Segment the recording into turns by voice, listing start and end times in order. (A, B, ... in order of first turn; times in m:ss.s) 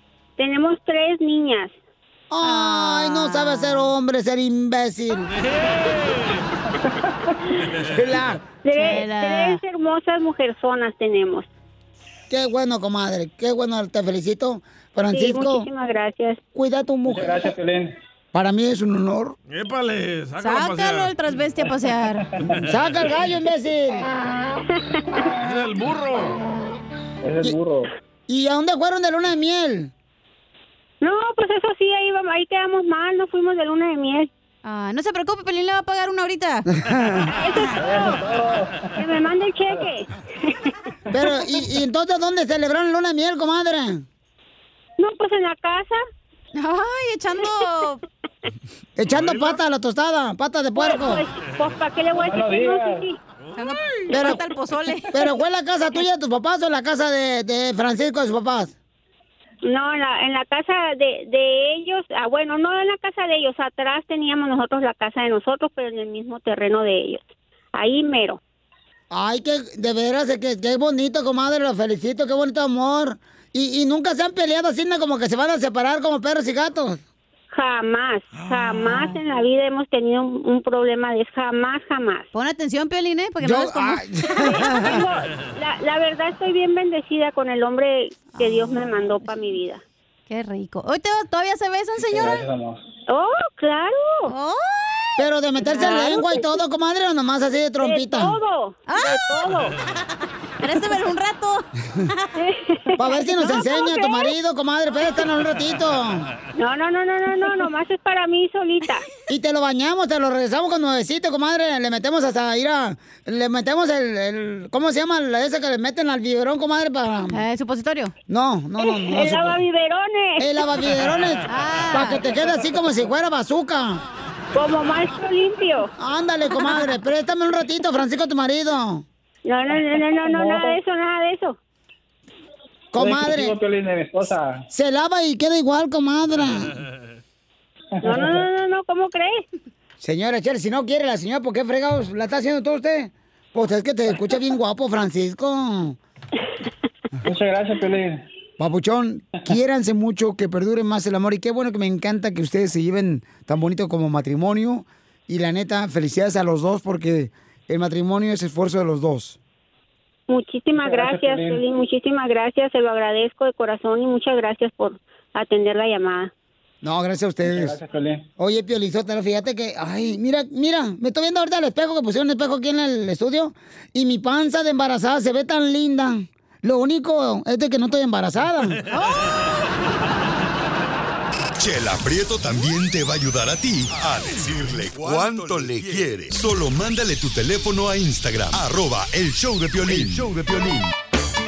0:00.4-0:01.8 A
0:02.3-0:05.3 B
0:02.4-0:03.9 C
0:05.4-0:06.4 D
0:07.9-0:08.4 B
0:08.6-0:11.5 A
0:08.7-0:09.6 C
0:12.3-0:15.7 B
0:15.1-0:16.4 A
0:16.6-0:17.5 B
0:17.1-0:17.9 E
0:18.3-0:19.4 B
0:19.5-0:21.2 D
0:20.4-0:22.3 C
0:22.7-0:24.1 B
0:25.4-0:26.4 D
0:27.2-0:27.8 E
0:28.3-0:29.9 B
0:31.0-0:34.3 A
0:34.6-0:36.7 C
0:36.8-0:37.3 B
0:37.4-0:38.0 A
0:37.8-0:38.8 E
0:39.0-0:40.6 A
0:41.1-0:44.0 B
0:45.0-0:46.0 A
0:46.6-0:48.0 C
0:49.0-0:51.2 B
0:49.1-0:49.6 D
0:50.8-0:53.2 A
0:52.1-0:53.1 E
0:53.6-0:55.2 C
0:54.1-0:54.4 B
0:55.1-0:58.7 B
0:59.6-1:08.4 A
1:09.1-1:17.0 B
1:17.5-1:22.3 A
1:22.3-1:24.8 C
1:23.4-1:24.9 B
1:24.4-1:29.8 A
1:28.4-1:29.2 C
1:30.3-1:32.4 C
1:32.1-1:32.8 E
1:33.1-1:34.3 A
1:34.3-1:35.1 C
1:35.2-1:38.4 B
1:35.7-1:36.5 A
1:35.7-1:36.2 C
1:37.8-1:39.8 A
1:38.9-1:39.5 C
1:40.6-1:42.3 C
1:42.4-1:44.3 A
1:43.0-1:46.3 B
1:46.6-1:49.1 A
1:49.3-1:57.4 B
1:57.3-1:58.1 C
1:58.3-1:59.6 B
1:58.8-2:00.6 A
2:00.4-2:04.0 B
2:01.5-2:02.2 C
2:04.5-2:05.9 A
2:06.0-2:09.0 B
2:09.5-2:11.6 A
2:09.8-2:10.8 E
2:12.9-2:13.6 B
2:13.0-2:14.6 E
2:14.7-2:16.8 B
2:18.0-2:18.4 E
2:18.0-2:19.4 A
2:20.0-2:26.0 B
2:27.2-2:28.2 E
2:28.6-2:39.4 B
2:40.3-2:46.3 A
2:40.8-2:41.6 E
2:46.8-2:47.8 B
2:47.4-2:48.2 E
2:48.4-2:58.8 B
2:58.9-2:59.4 C
3:01.6-3:10.9 F